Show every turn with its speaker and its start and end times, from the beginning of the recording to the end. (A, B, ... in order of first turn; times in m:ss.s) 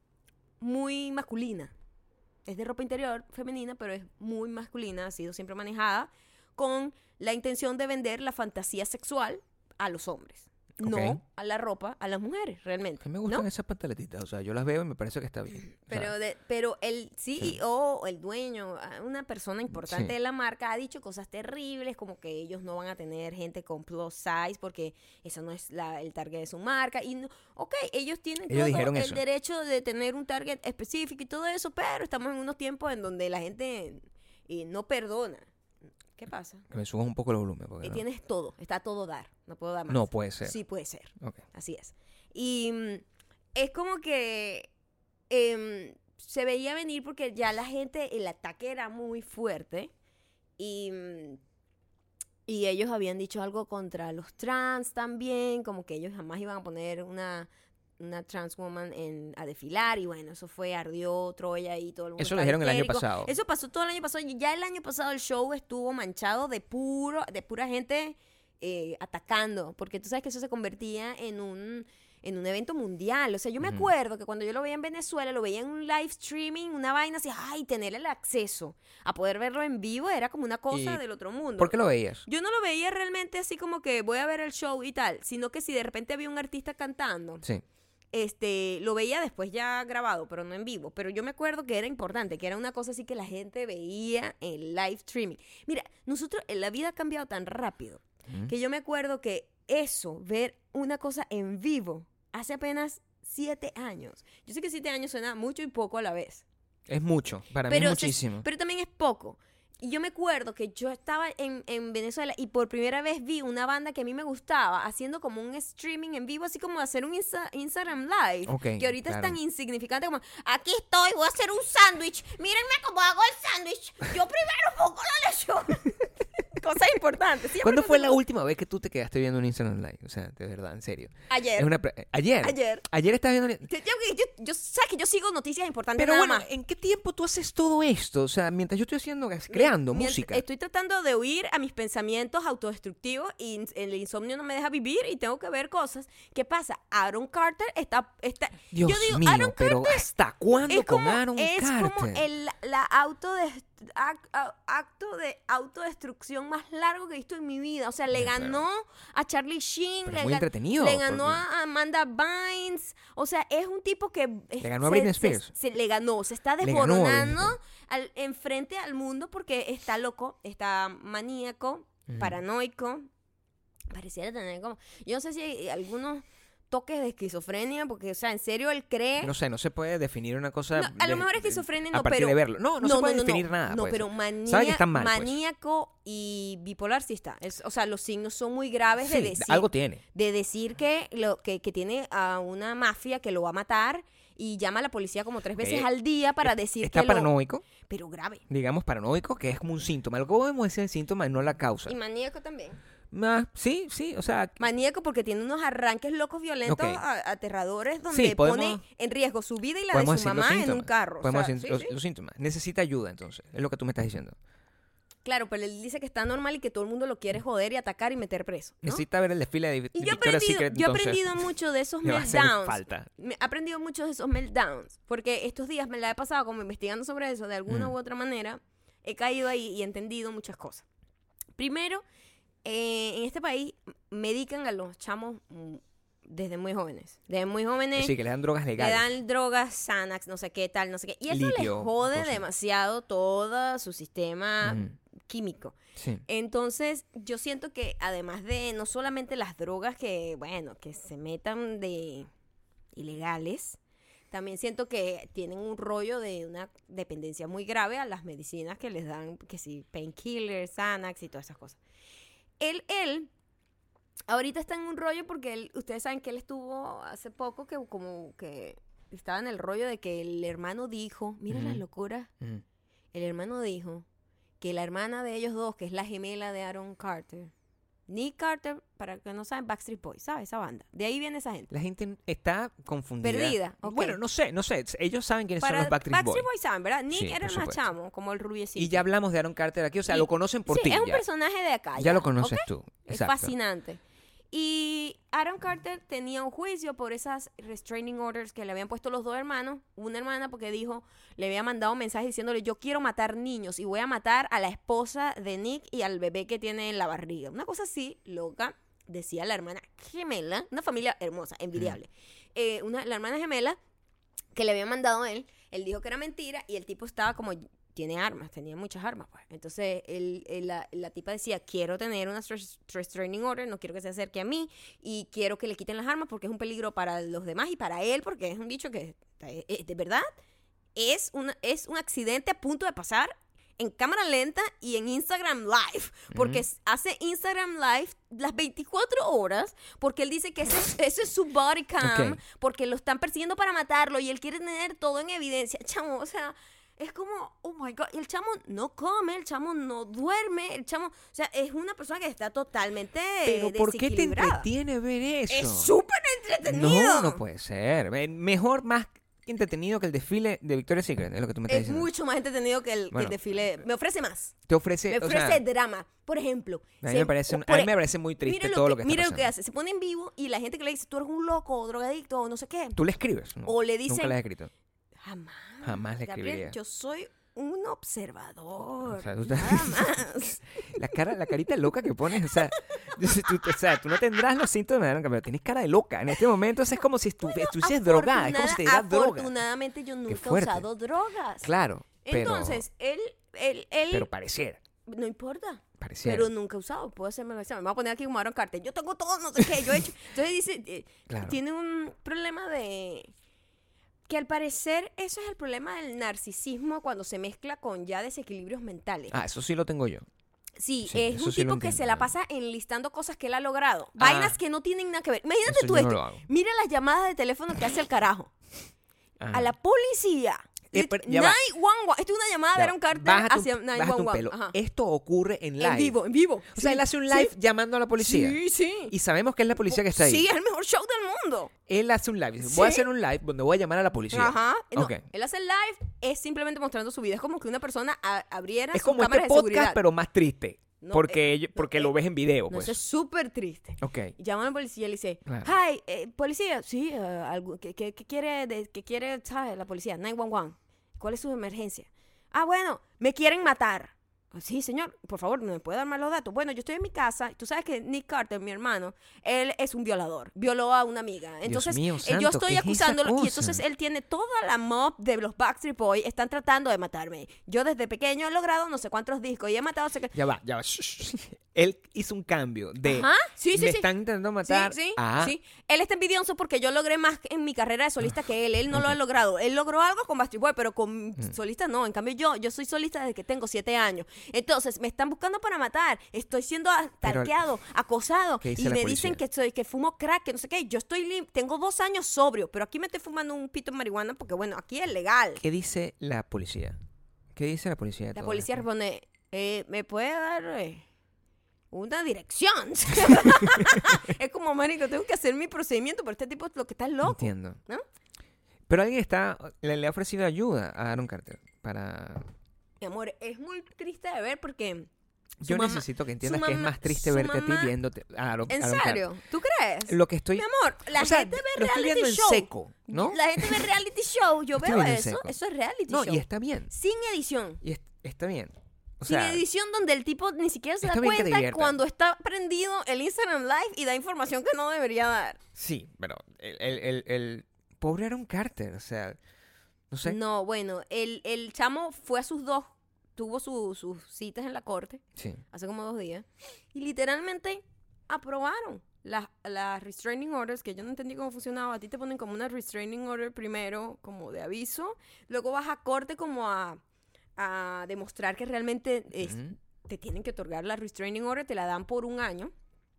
0:00.6-0:01.7 A
0:02.4-0:13.4 A
0:10.8-0:11.2 B
0:13.0-0:16.1 B
0:15.8-0:35.5 A
0:19.7-0:20.1 B
0:28.5-0:29.2 B
0:36.2-0:36.6 A
0:36.7-0:38.0 B
0:37.8-0:43.0 A
0:39.9-0:40.6 B
0:43.5-0:44.7 A
0:45.3-0:49.9 A
0:50.6-0:51.4 A
0:52.5-0:57.5 A
0:58.0-1:27.4 A
1:02.2-1:03.3 B
1:20.7-1:21.0 B
1:21.6-1:22.2 B
1:28.1-1:46.4 A
1:46.9-1:48.4 B
1:47.7-2:08.2 A
1:58.5-1:59.4 B
2:07.6-2:13.7 B
2:11.3-2:11.7 A
2:12.4-2:12.8 A
2:13.7-2:16.5 A
2:16.0-2:20.4 B
2:19.5-2:30.1 A
2:28.7-2:32.2 B
2:30.7-2:53.1 A
2:38.1-2:38.6 B
2:40.0-2:41.4 B
2:44.6-2:45.5 B
2:46.6-2:47.6 B
2:52.1-2:52.4 B
2:53.9-2:59.3 A
2:59.2-3:05.4 B
3:00.8-3:18.4 A
3:09.0-3:10.0 B
3:15.6-3:15.9 B
3:16.4-3:17.6 B
3:18.5-3:21.9 B
3:21.8-3:22.8 A
3:23.1-3:24.6 B
3:24.6-3:31.9 A
3:26.6-3:27.0 B
3:28.1-3:28.8 B
3:29.9-3:34.3 B
3:35.2-3:39.0 A
3:38.8-3:41.5 B
3:39.9-3:50.8 A
3:42.0-3:43.1 B
3:47.7-3:47.9 B
3:51.6-3:52.0 A
3:52.6-3:58.1 A
3:57.9-3:59.1 B
3:58.8-4:12.3 A
4:01.3-4:02.4 B
4:04.6-4:04.9 B
4:06.0-4:06.2 B
4:12.9-4:13.8 A
4:14.3-4:21.8 A
4:22.6-4:23.3 A
4:24.3-4:32.3 A
4:31.5-4:31.8 B
4:33.1-4:34.0 A
4:34.6-4:37.5 A
4:38.1-4:41.7 A
4:41.7-4:46.5 B
4:43.2-4:44.2 A
4:45.6-4:49.0 A
4:47.1-4:47.8 B
4:48.8-4:51.2 B
4:50.1-5:13.8 A
4:52.0-4:53.5 B
5:14.5-5:30.3 A
5:30.9-5:54.7 A
5:36.3-5:36.6 B
5:42.0-5:42.4 B
5:53.4-5:55.9 B
5:55.5-5:57.4 A
5:56.6-6:02.1 B
6:01.7-6:04.5 A
6:04.7-6:05.6 B
6:05.1-6:13.0 A
6:07.0-6:09.5 B
6:13.0-6:14.7 B
6:13.6-6:14.4 A
6:15.2-6:20.6 A
6:15.8-6:16.8 B
6:19.0-6:29.5 B
6:22.4-6:22.7 A
6:27.4-6:31.7 A
6:30.3-6:30.8 B
6:31.6-6:32.8 B
6:32.2-6:34.3 A
6:34.1-6:34.8 B
6:35.0-6:43.3 A
6:36.0-6:36.5 B
6:41.3-6:41.6 B
6:44.3-6:49.3 A
6:49.3-6:50.2 B
6:50.8-6:58.5 A
6:51.0-6:52.3 B
6:54.2-6:54.6 B
6:55.6-6:56.4 B
6:59.4-6:59.7 B
6:59.5-7:04.7 A
7:00.9-7:01.6 B
7:02.7-7:06.2 B
7:05.8-7:07.5 A
7:06.7-7:08.6 B
7:08.2-7:09.1 A
7:09.1-7:10.4 B
7:09.9-7:11.7 A
7:11.9-7:15.2 B
7:12.6-7:13.0 A
7:14.3-7:20.0 A
7:18.9-7:23.0 B
7:21.0-7:22.1 A
7:22.7-7:50.3 A
7:24.0-7:24.3 B
7:41.6-7:43.8 B
7:50.3-7:55.5 B
7:53.0-7:54.1 A
7:54.6-8:15.6 A
8:07.2-8:07.5 B
8:08.6-8:09.4 B
8:15.6-8:17.0 B
8:17.5-8:18.8 B
8:18.3-8:21.0 A
8:21.9-8:28.0 A
8:23.3-8:24.0 B
8:27.2-8:27.8 B
8:28.9-8:32.5 B
8:33.0-8:35.1 A
8:35.6-8:39.3 B
8:35.6-8:37.9 A
8:38.7-8:47.8 A
8:40.1-8:43.9 B
8:44.8-8:45.5 B
8:46.1-8:46.9 B
8:47.8-8:49.6 B
8:49.2-8:55.6 A
8:51.0-8:52.0 B
8:55.7-8:59.4 B
9:00.1-9:00.4 B
9:00.2-9:17.0 A
9:17.6-9:22.7 A
9:19.4-9:19.7 B